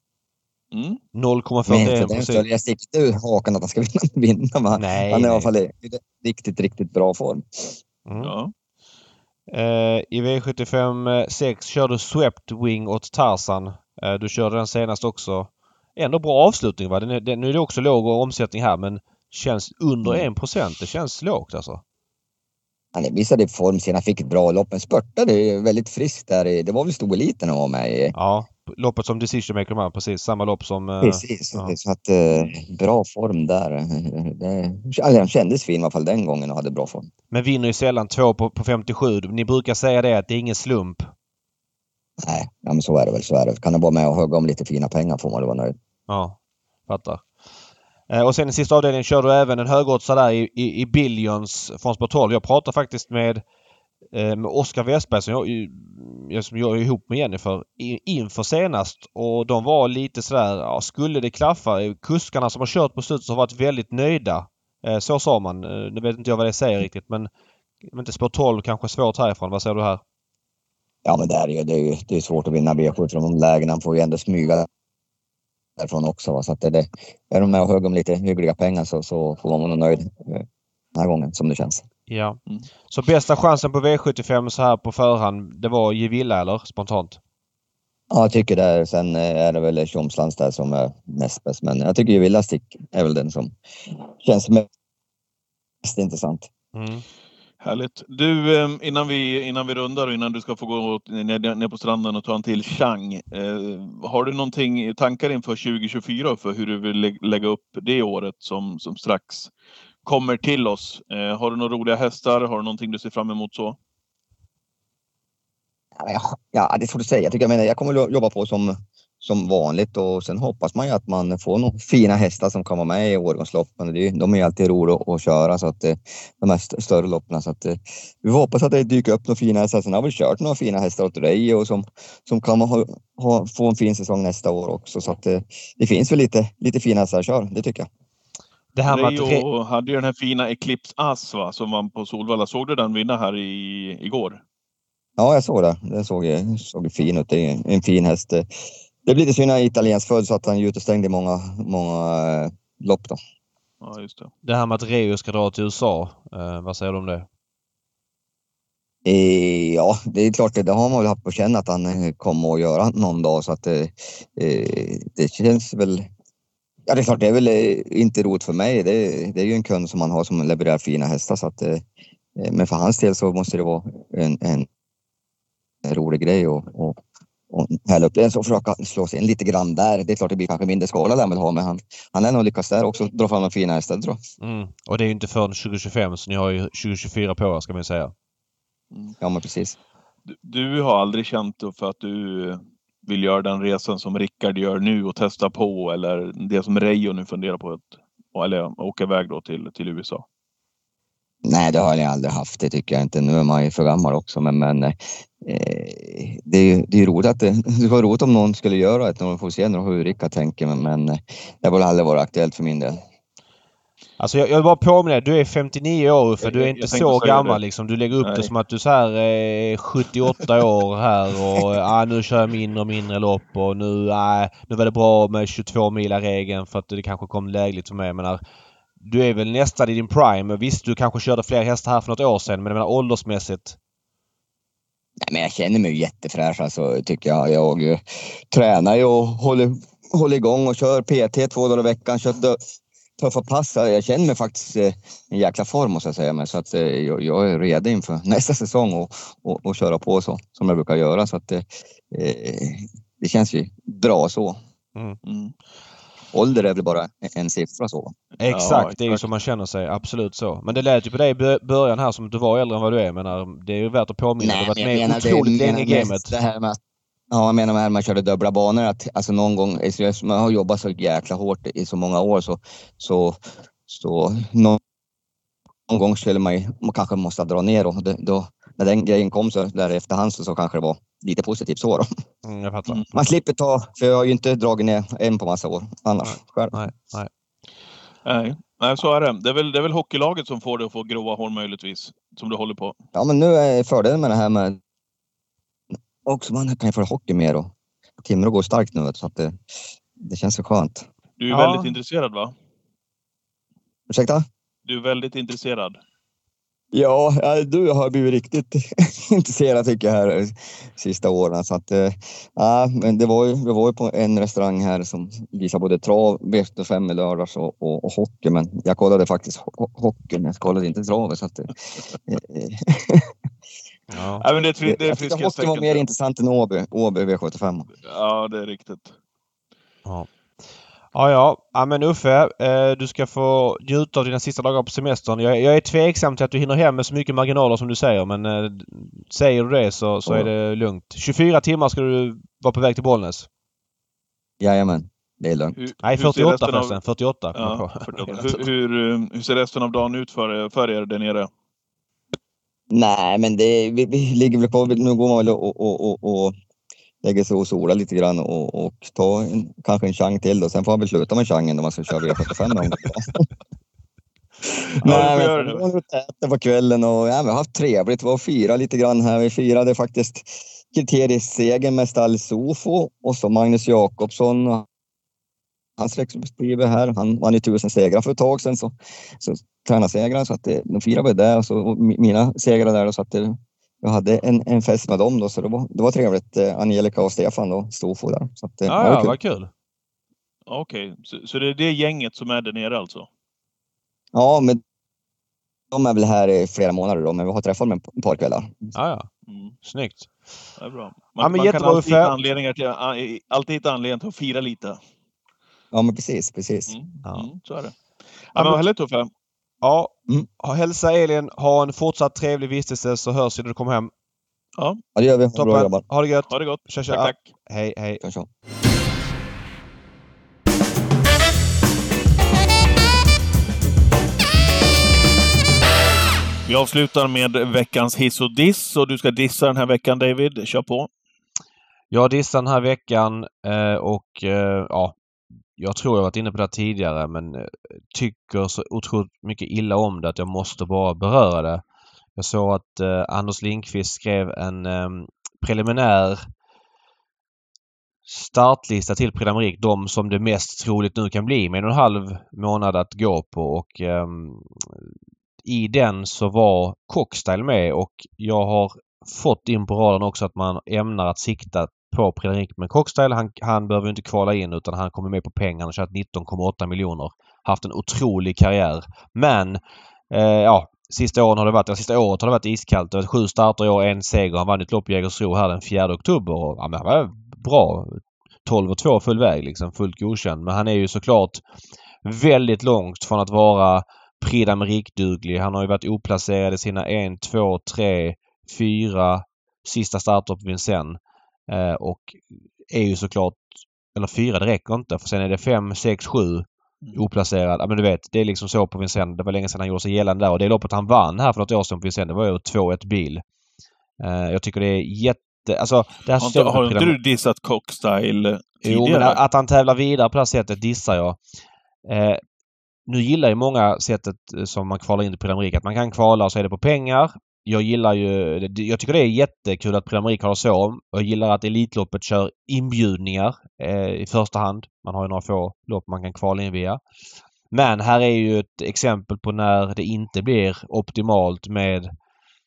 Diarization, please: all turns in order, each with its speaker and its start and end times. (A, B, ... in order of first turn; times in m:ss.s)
0:00.7-0:01.0 A
0:01.1-0:02.4 B
0:01.7-0:07.8 C
0:04.8-0:05.5 B
0:08.1-0:08.3 B
0:08.2-0:08.5 A
0:09.5-0:21.8 B
0:23.0-0:28.2 C
0:28.2-0:31.7 B
0:31.0-0:37.1 C
0:37.3-0:41.1 B
0:42.2-0:45.7 C
0:46.1-0:47.3 B
0:48.1-0:53.4 B
0:54.1-1:07.3 B
1:07.9-1:10.0 B
1:11.0-1:14.7 C
1:15.8-1:20.4 C
1:21.0-1:21.8 C
1:22.1-1:22.4 B
1:22.9-1:27.2 B
1:28.1-1:33.5 C
1:34.2-1:34.7 C
1:35.8-1:36.5 C
1:36.7-1:37.0 B
1:37.6-1:49.5 A
1:50.0-1:53.8 A
1:56.0-2:17.9 C
2:18.8-2:19.4 B
2:18.9-2:24.4 A
2:25.2-2:28.5 C
2:29.1-2:33.2 C
2:33.8-2:34.3 A
2:34.4-2:37.3 B
2:39.0-2:46.0 C
2:46.9-2:51.8 C
2:52.4-2:54.7 C
2:55.8-2:57.0 C
2:57.5-3:04.2 C
3:04.4-3:08.1 B
3:09.2-3:09.8 C
3:10.3-3:20.2 A
3:21.4-3:33.0 C
3:34.2-3:48.4 B
3:36.4-3:37.6 A
3:38.2-3:38.5 A
3:49.0-3:53.8 B
3:55.2-4:02.6 C
4:03.2-4:14.6 C
4:15.2-4:15.5 A
4:16.3-4:18.1 C
4:18.4-4:26.3 B
4:18.5-4:19.2 A
4:24.4-4:26.8 C
4:27.3-4:34.8 C
4:35.9-4:42.1 C
4:42.4-4:43.1 B
4:43.1-4:46.8 C
4:46.2-4:47.3 B
4:48.2-4:53.0 A
4:53.1-4:54.8 C
4:56.3-4:57.7 C
4:58.2-4:59.6 C
5:00.2-5:01.1 C
5:01.4-5:02.5 A
5:01.5-5:02.0 B
5:04.1-5:04.4 C
5:04.8-5:06.0 A
5:06.9-5:21.7 C
5:22.3-5:23.3 C
5:24.1-5:24.4 B
5:24.4-5:26.0 A
5:24.8-5:27.9 C
5:28.0-5:29.1 A
5:31.1-5:43.5 B
5:40.2-5:40.5 C
5:44.6-5:45.8 C
5:45.8-5:47.0 A
5:46.0-5:48.6 B
5:47.6-5:51.5 A
5:52.9-5:56.6 C
5:57.2-6:03.4 C
6:05.0-6:05.5 B
6:05.0-6:05.8 A
6:05.0-6:14.9 C
6:16.0-6:29.4 C
6:28.9-6:29.7 B
6:30.7-6:33.3 A
6:34.3-6:34.8 C
6:35.9-6:38.9 C
6:39.0-6:39.3 B
6:39.5-6:39.7 A
6:39.8-6:40.3 B
6:40.8-6:45.0 A
6:41.4-6:42.3 B
6:45.9-6:46.9 C
6:46.9-6:48.0 A
6:48.5-6:49.3 A
6:48.6-6:48.8 B
6:49.8-6:54.1 B
6:55.2-6:56.0 C
6:55.6-6:58.2 B
6:56.5-6:57.5 A
7:06.6-7:11.1 A
7:12.1-7:15.2 B
7:15.8-7:21.8 B
7:22.4-7:26.4 B
7:28.3-7:35.0 B
7:35.6-7:49.8 B
7:50.3-8:01.6 B
8:02.2-8:23.4 B
8:24.2-8:27.2 B
8:26.4-8:29.4 A
8:28.8-8:31.4 B
8:32.1-8:32.4 B
8:33.1-8:47.0 B
8:47.7-8:52.1 B